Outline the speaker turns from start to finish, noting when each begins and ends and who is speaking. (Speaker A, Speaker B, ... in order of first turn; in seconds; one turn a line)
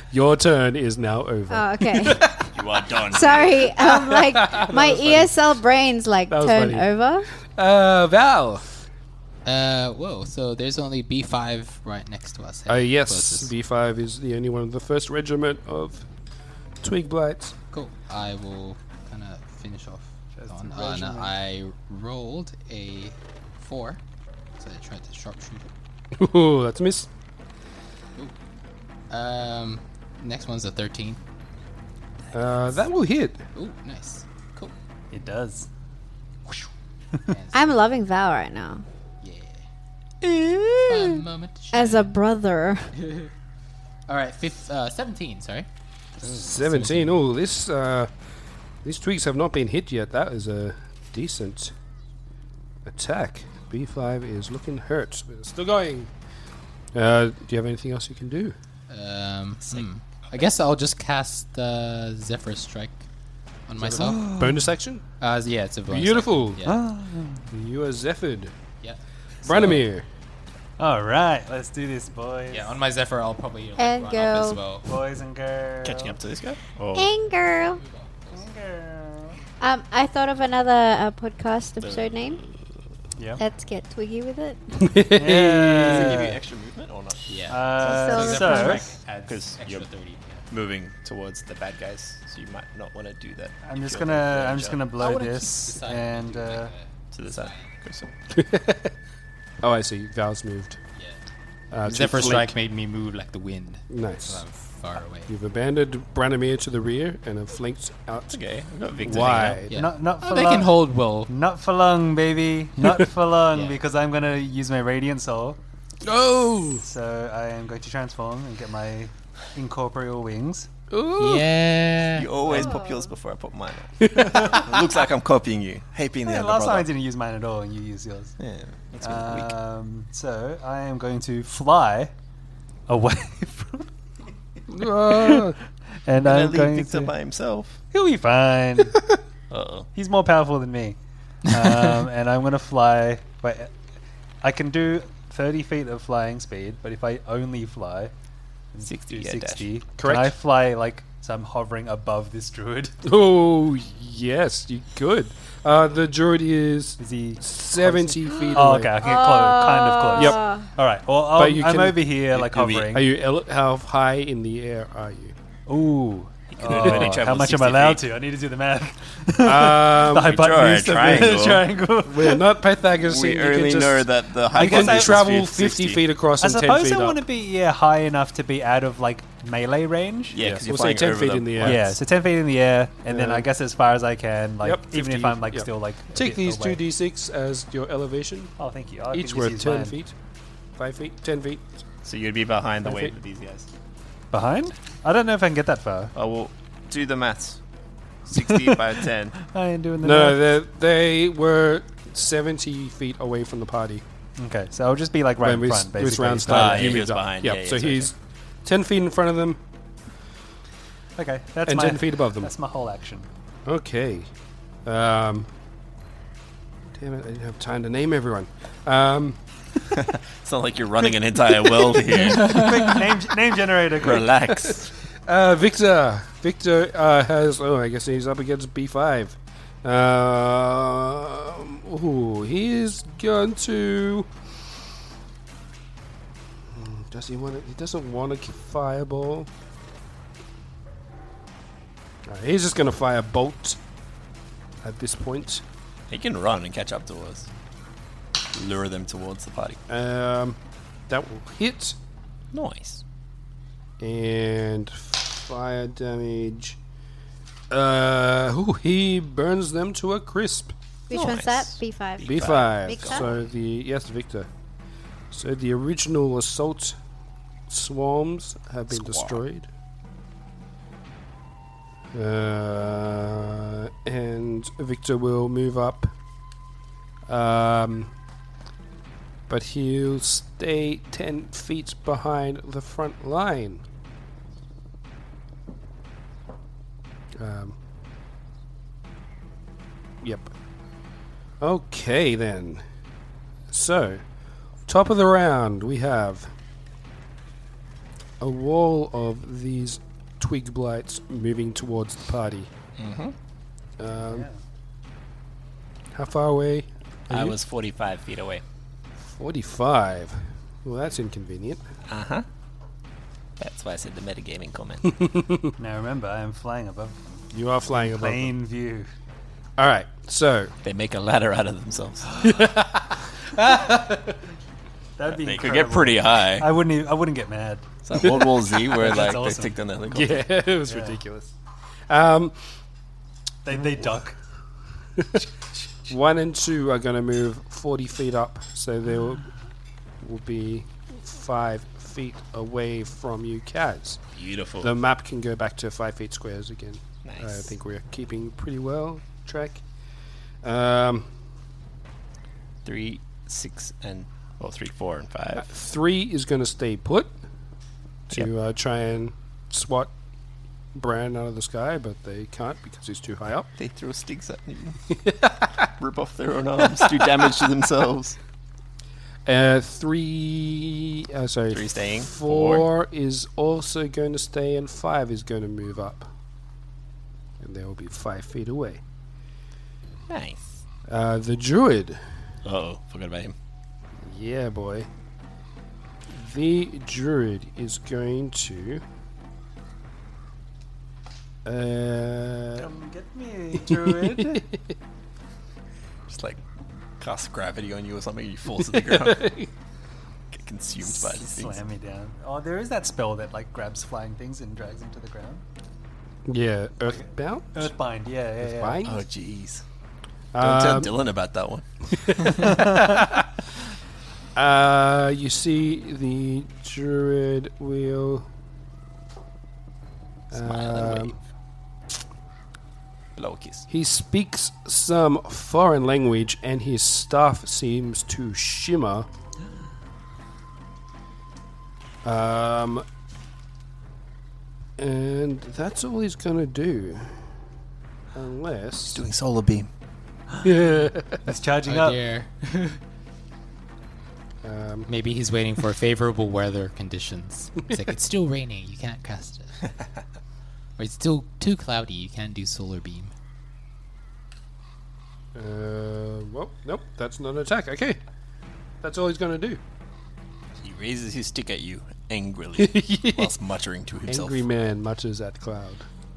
Speaker A: 0.1-2.5
Speaker B: 1.5-7.3
Speaker C: 2.5-3.8
Speaker A: 3.8-5.3
Speaker A: 6.3-8.8
Speaker D: 9.4-13.5
Speaker A: 12.7-16.1
Speaker A: 16.8-17.6
Speaker D: 17.7-24.0
Speaker E: 20.3-21.3
Speaker D: 24.6-25.6
Speaker A: 26.1-27.1
Speaker D: 29.1-31.2
Speaker D: 32.2-32.8
Speaker A: 32.3-33.4
Speaker D: 33.5-34.7
Speaker E: 35.1-35.7
Speaker D: 37.3-37.8
Speaker B: 37.5-38.8
Speaker D: 39.2-39.6
Speaker C: 40.2-41.1
Speaker D: 40.9-42.1
Speaker B: 41.7-42.9
Speaker D: 43.0-43.3
Speaker D: 44.1-45.7
Speaker D: 46.2-47.2
Speaker A: 46.2-48.1
Speaker A: 48.8-51.7
Speaker A: 52.9-56.1
Speaker A: 56.9-58.5
Speaker D: 58.9-63.0
Speaker D: 63.7-64.2
Speaker A: 63.8-65.0
Speaker E: 63.9-64.7
Speaker D: 65.2-66.8
Speaker A: 65.9-66.6
Speaker E: 66.6-67.5
Speaker A: 67.5-68.5
Speaker D: 68.8-69.8
Speaker A: 69.4-70.0
Speaker E: 70.8-72.7
Speaker D: 72.5-74.9
Speaker B: 73.8-74.6
Speaker E: 74.8-76.2
Speaker C: 75.8-77.1
Speaker B: 76.9-77.8
Speaker D: 77.7-78.5
Speaker E: 78.3-79.4
Speaker B: 79.6-82.4
Speaker C: 81.8-82.5
Speaker E: 83.2-83.4
Speaker B: 83.4-84.9
Speaker A: 84.8-86.3
Speaker E: 85.1-86.4
Speaker C: 85.9-89.9
Speaker D: 87.3-90.4
Speaker E: 87.5-88.9
Speaker B: 87.8-88.8
Speaker C: 90.5-94.8
Speaker E: 93.6-96.7
Speaker D: 95.0-97.7
Speaker C: 97.1-98.1
Speaker A: 98.3-98.9
Speaker A: 99.6-100.8
Speaker A: 101.7-102.5
Speaker D: 101.8-105.3
Speaker A: 103.9-104.4
Speaker A: 105.3-108.4
Speaker C: 108.3-109.6
Speaker A: 109.0-109.8
Speaker D: 109.7-111.3
Speaker E: 109.7-115.6
Speaker D: 113.5-113.8
Speaker A: 116.0-116.8
Speaker E: 116.8-120.7
Speaker A: 120.9-121.5
Speaker D: 121.2-122.3
Speaker C: 122.1-126.9
Speaker E: 122.5-122.7
Speaker B: 122.5-123.1
Speaker A: 124.0-124.5
Speaker E: 124.2-124.6
Speaker E: 126.2-128.3
Speaker C: 128.4-129.6
Speaker E: 129.0-132.1
Speaker E: 132.9-133.9
Speaker A: 134.7-135.6
Speaker E: 134.8-137.1
Speaker C: 136.2-137.8
Speaker E: 137.9-139.0
Speaker C: 139.5-139.9
Speaker E: 139.9-141.0
Speaker E: 141.5-143.7
Speaker E: 144.4-148.1
Speaker E: 148.7-152.9
Speaker C: 148.8-149.7
Speaker A: 150.0-150.3
Speaker A: 153.0-159.0
Speaker E: 157.0-163.1
Speaker B: 159.0-160.7
Speaker A: 160.2-160.4
Speaker A: 161.3-162.0
Speaker C: 162.3-162.9
Speaker A: 162.9-165.3
Speaker E: 165.7-172.5
Speaker C: 166.5-168.0
Speaker A: 166.6-167.2
Speaker A: 169.4-170.3
Speaker C: 170.1-171.7
Speaker A: 172.0-177.2
Speaker C: 172.9-176.0
Speaker E: 174.5-175.4
Speaker E: 176.4-180.4
Speaker C: 180.3-181.8
Speaker A: 180.4-182.0
Speaker E: 181.6-186.8
Speaker A: 183.1-183.5
Speaker A: 184.6-188.5
Speaker E: 188.6-190.0
Speaker A: 189.1-190.1
Speaker A: 190.8-191.6
Speaker C: 192.0-193.7
Speaker A: 192.8-193.1
Speaker E: 194.3-196.1
Speaker C: 196.1-197.6
Speaker C: 198.2-199.4
Speaker E: 198.3-200.6
Speaker A: 200.0-204.0
Speaker E: 204.4-207.1
Speaker A: 205.4-209.6
Speaker C: 206.5-208.1
Speaker E: 211.2-213.3
Speaker A: 211.7-212.5
Speaker A: 213.7-214.3
Speaker A: 214.8-215.5
Speaker A: 216.9-219.4
Speaker C: 219.9-223.1
Speaker E: 221.8-224.3
Speaker C: 223.9-224.9
Speaker A: 225.3-234.3
Speaker A: 236.7-239.5
Speaker A: 242.3-243.8
Speaker A: 244.8-245.6
Speaker C: 246.1-247.5
Speaker C: 248.5-249.8
Speaker A: 249.9-252.0
Speaker C: 252.5-253.0
Speaker A: 254.0-256.8
Speaker A: 257.7-260.7
Speaker B: 261.1-263.3
Speaker C: 261.1-263.4
Speaker A: 262.2-264.5
Speaker A: 265.3-267.0
Speaker A: 267.7-269.7
Speaker C: 268.9-269.4
Speaker A: 272.1-276.1
Speaker A: 277.3-278.1
Speaker A: 279.5-283.8
Speaker A: 287.4-287.8
Speaker A: 290.2-290.5
Speaker A: 291.6-292.8
Speaker A: 293.7-294.2
Speaker A: 294.9-296.5
Speaker A: 298.4-302.7
Speaker C: 303.0-303.3
Speaker A: 304.0-304.5
Speaker E: 304.2-304.6
Speaker A: 306.1-307.6
Speaker C: 307.3-308.6
Speaker A: 309.2-311.9
Speaker C: 312.1-312.4
Speaker C: 313.6-315.1
Speaker A: 315.1-315.7
Speaker E: 315.8-317.2
Speaker A: 317.5-318.5
Speaker E: 317.9-319.1
Speaker A: 319.8-320.7
Speaker C: 320.8-322.4
Speaker A: 322.4-324.4
Speaker E: 325.2-328.3
Speaker C: 325.3-326.7
Speaker C: 328.0-330.4
Speaker E: 328.8-329.8
Speaker A: 330.1-331.5
Speaker E: 330.8-331.2
Speaker A: 332.1-332.6
Speaker E: 333.6-334.3
Speaker A: 333.7-334.2
Speaker A: 335.2-335.4
Speaker A: 336.1-339.5
Speaker A: 340.2-344.2
Speaker C: 344.3-345.0
Speaker A: 344.8-349.8
Speaker C: 347.2-347.8
Speaker A: 350.6-351.3
Speaker C: 352.8-355.7
Speaker A: 355.6-357.3
Speaker A: 358.3-360.1
Speaker A: 360.9-363.7
Speaker C: 363.8-365.0
Speaker A: 365.1-365.9
Speaker C: 365.9-368.4
Speaker A: 369.4-376.3
Speaker C: 371.7-372.9
Speaker A: 377.6-379.0
Speaker C: 380.3-380.8
Speaker A: 381.1-382.2
Speaker C: 382.6-383.5
Speaker A: 384.2-385.1
Speaker A: 386.3-389.0
Speaker A: 391.6-392.9
Speaker E: 392.8-394.7
Speaker A: 393.8-394.8
Speaker C: 396.3-396.6
Speaker C: 397.2-399.5
Speaker A: 398.9-399.7
Speaker C: 400.5-401.8
Speaker E: 401.0-405.6
Speaker A: 406.5-407.9
Speaker E: 407.0-409.1
Speaker A: 408.6-409.2
Speaker C: 409.0-409.8
Speaker A: 410.5-411.1
Speaker C: 410.6-412.8
Speaker A: 412.2-413.5
Speaker E: 412.6-413.2
Speaker A: 414.6-418.5
Speaker A: 420.5-421.4
Speaker C: 420.5-421.4
Speaker C: 423.4-423.9
Speaker A: 423.9-429.3
Speaker A: 432.2-433.0
Speaker A: 435.0-437.5
Speaker A: 438.3-439.2
Speaker C: 439.1-439.9
Speaker A: 440.6-441.5
Speaker E: 441.4-442.2
Speaker D: 441.8-443.0
Speaker A: 444.6-445.1
Speaker D: 445.1-449.9
Speaker D: 451.0-453.3
Speaker A: 455.5-458.2
Speaker A: 459.0-459.8
Speaker C: 460.8-464.7
Speaker A: 462.8-463.5
Speaker A: 464.3-466.1